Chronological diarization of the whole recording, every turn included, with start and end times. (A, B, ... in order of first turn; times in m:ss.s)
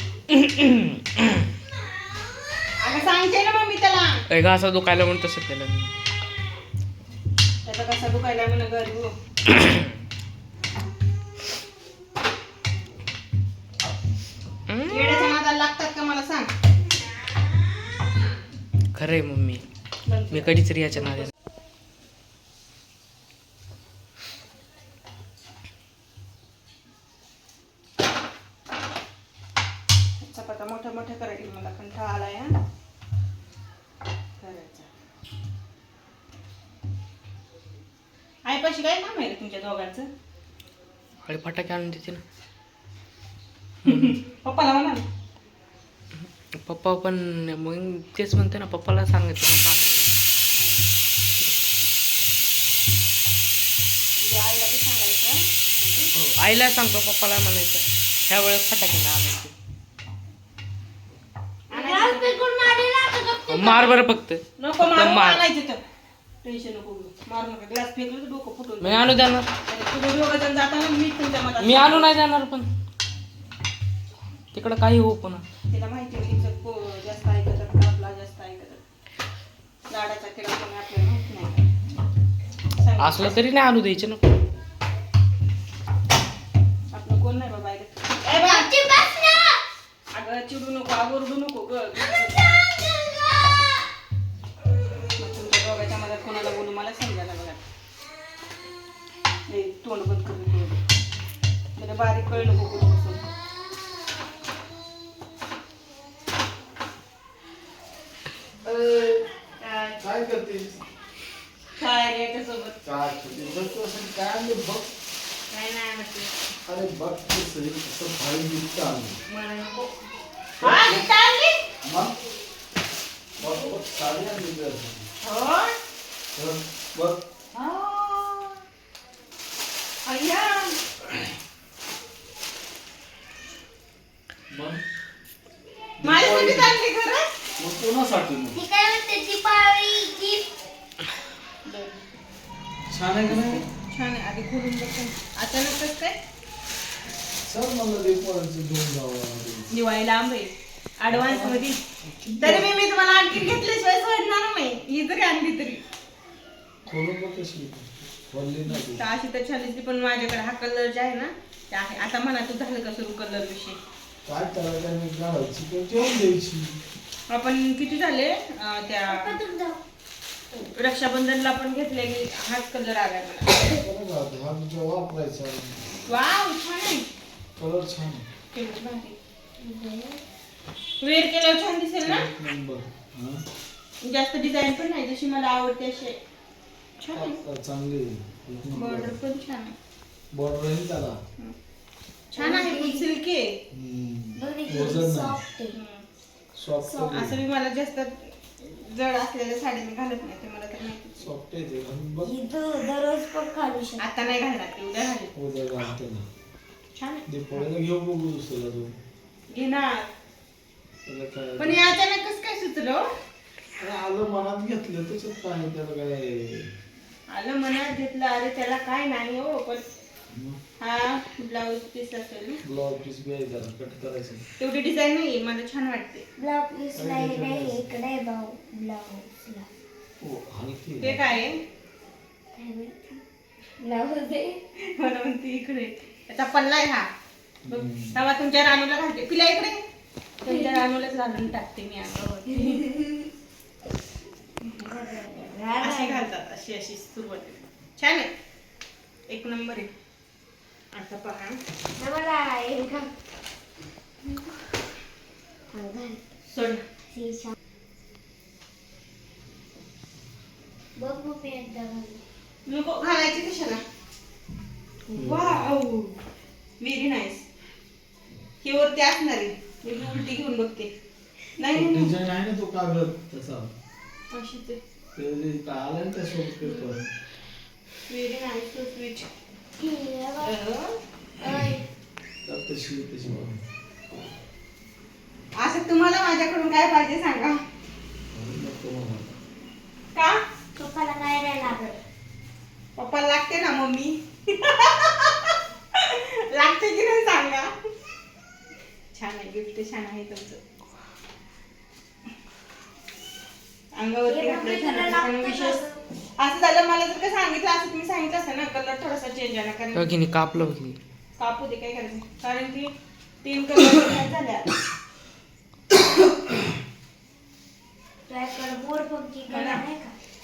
0:00.3-0:01.4 A
0:02.8-0:04.2 B
0:04.3-0:05.9 A
0:07.6-0:09.1 B
0:09.5-0:09.9 A
0:14.7-0:15.3 A
0:14.9-0:16.5 B
0:18.9-0:19.6 A
0:20.0-0:21.3 B
0:20.3-0:21.3 A
0:30.2-0:32.6 B
0:34.4-0:34.9 B
0:38.4-0:40.1 B
0:41.2-0:42.2 A
0:43.8-0:45.0 B
0:43.8-0:44.2 A
0:46.6-0:50.2 A
0:50.5-0:50.8 B
0:54.2-0:56.1 B
0:56.2-0:59.5 A
1:01.7-1:02.4 B
1:01.7-1:04.0 C
1:03.5-1:05.4 A
1:04.6-1:05.8 B
1:06.4-1:12.1 B
1:08.8-1:09.5 A
1:11.6-1:12.7 A
1:14.5-1:15.4 A
1:15.7-1:18.8 B
1:19.9-1:21.7 B
1:22.7-1:23.4 B
1:23.0-1:24.3 A
1:26.9-1:28.7 B
1:28.2-1:29.6 C
1:30.1-1:32.5 B
1:35.2-1:37.6 B
1:39.5-1:40.8 B
1:41.8-1:43.2 B
1:48.7-1:50.8 D
1:51.8-1:52.8 B
1:52.8-1:54.9 D
1:55.5-1:56.3 B
1:56.6-1:59.2 D
1:59.3-1:59.9 B
2:00.6-2:01.6 B
2:00.6-2:01.1 D
2:01.8-2:02.2 D
2:03.4-2:05.1 D
2:05.2-2:05.8 B
2:06.3-2:07.2 D
2:07.5-2:08.6 B
2:10.0-2:10.8 B
2:14.5-2:14.8 D
2:16.0-2:16.7 D
2:16.0-2:17.3 B
2:17.6-2:18.6 D
2:18.5-2:20.5 C
2:21.6-2:22.0 B
2:22.9-2:23.6 D
2:23.2-2:26.2 B
2:27.4-2:29.7 D
2:29.7-2:31.8 B
2:31.1-2:32.7 D
2:32.4-2:35.8 B
2:36.9-2:39.0 D
2:38.7-2:43.8 B
2:44.2-2:46.8 D
2:47.3-2:49.4 B
2:49.1-2:49.8 C
2:50.7-2:53.7 B
2:53.7-2:55.8 D
2:56.0-2:57.1 B
2:57.6-2:58.2 D
2:58.5-2:59.2 B
2:59.6-3:00.2 C
3:01.0-3:02.3 B
3:02.0-3:03.4 D
3:04.0-3:06.2 B
3:07.0-3:07.4 B
3:07.1-3:09.2 D
3:08.8-3:09.8 B
3:10.3-3:11.2 D
3:12.3-3:13.6 B
3:12.4-3:13.1 C
3:13.7-3:15.4 D
3:14.4-3:15.8 C
3:15.7-3:16.0 B
3:16.5-3:17.4 D
3:16.8-3:17.3 C
3:17.1-3:21.3 B
3:21.2-3:22.3 D
3:22.2-3:24.0 C
3:24.0-3:25.3 B
3:25.3-3:26.2 D
3:27.0-3:27.6 B
3:27.3-3:28.9 D
3:29.5-3:30.1 B
3:31.0-3:31.8 D
3:31.6-3:33.0 B
3:33.8-3:36.7 D
3:37.3-3:39.8 B
3:40.3-3:40.6 D
3:40.8-3:42.6 B
3:42.6-3:44.4 D
3:44.6-3:46.2 B
3:46.4-3:49.7 C
3:46.9-3:47.8 D
3:50.2-3:51.2 D
3:51.0-3:51.6 B
3:52.5-3:53.2 C
3:53.8-3:54.6 C
3:54.8-3:57.1 B
3:57.6-3:58.2 D
3:57.7-3:59.8 B
4:00.4-4:02.9 B
4:00.4-4:00.8 C
4:02.5-4:03.3 C
4:04.6-4:06.2 C
4:05.8-4:08.3 B
4:09.3-4:09.9 B
4:10.9-4:11.6 B
4:11.9-4:13.1 C
4:15.7-4:16.2 C
4:16.5-4:16.8 B
4:17.1-4:17.5 C
4:21.0-4:22.2 C
4:22.6-4:23.8 B
4:25.1-4:25.6 D
4:25.1-4:26.2 B
4:26.8-4:27.4 B
4:28.6-4:30.9 B
4:31.6-4:32.2 B
4:31.7-4:33.7 D
4:34.3-4:34.8 B
4:35.2-4:37.1 D
4:36.6-4:37.0 C
4:38.1-4:39.3 B
4:39.8-4:40.6 C
4:40.4-4:41.0 B
4:41.4-4:41.8 C
4:42.4-4:43.6 D
4:45.6-4:47.6 B
4:48.3-4:49.3 D
4:50.7-4:52.0 C
4:53.0-4:57.7 B
4:59.1-5:00.6 B
5:03.9-5:05.8 B
5:04.2-5:06.0 C
5:06.4-5:10.1 B
5:09.9-5:11.0 A
5:11.4-5:12.9 B
5:13.4-5:14.7 B
5:18.3-5:20.1 C
5:19.5-5:19.8 B